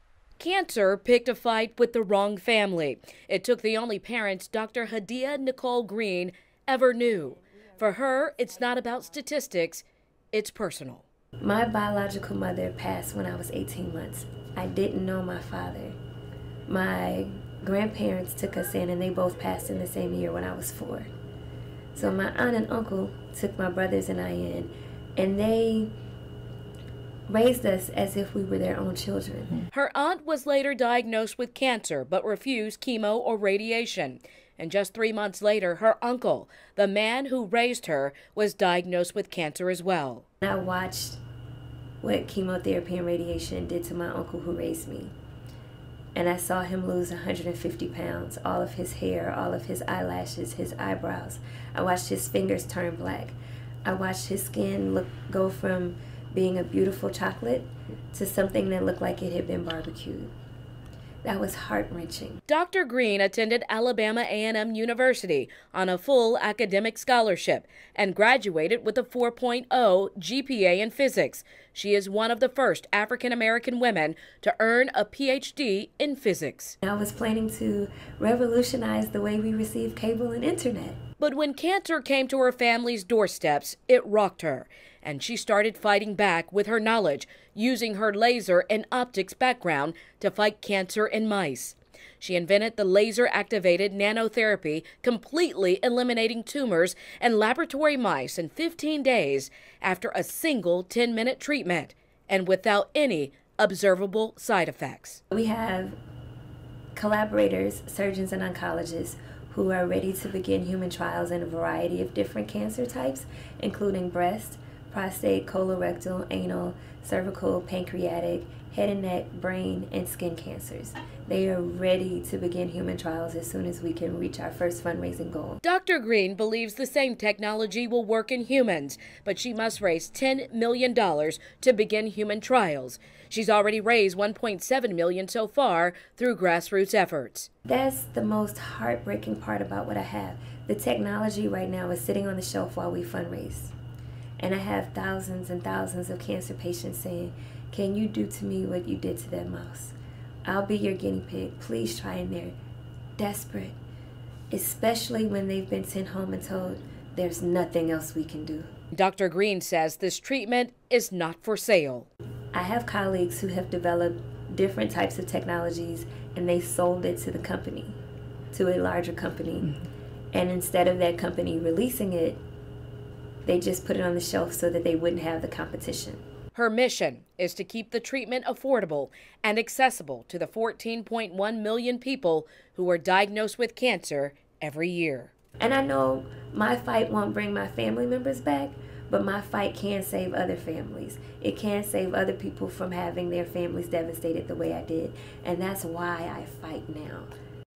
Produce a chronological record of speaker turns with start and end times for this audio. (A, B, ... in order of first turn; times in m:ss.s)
0:00.4-0:11.0 A
0:11.4-0:16.0 B
0:16.7-0:21.1 B
0:21.9-0:25.9 B
0:27.3-0:29.6 B
0:29.7-0:40.2 A
0:40.4-0:41.2 B
0:42.0-0:45.1 B
0:46.2-1:00.3 B
1:01.2-1:02.4 B
1:02.5-1:16.8 A
1:16.8-1:21.0 B
1:21.2-1:45.2 A
1:45.3-1:46.0 B
1:46.9-2:05.6 B
2:05.6-2:17.5 A
2:17.7-2:23.8 B
2:24.4-2:29.9 B
2:30.4-2:32.5 B
2:33.2-2:33.8 B
2:34.5-2:38.7 B
2:38.9-2:42.1 A
2:42.5-2:47.9 B
2:48.5-2:49.8 B
2:50.3-2:52.4 B
2:53.4-2:56.2 B
2:56.5-3:05.3 A
3:05.6-3:17.3 B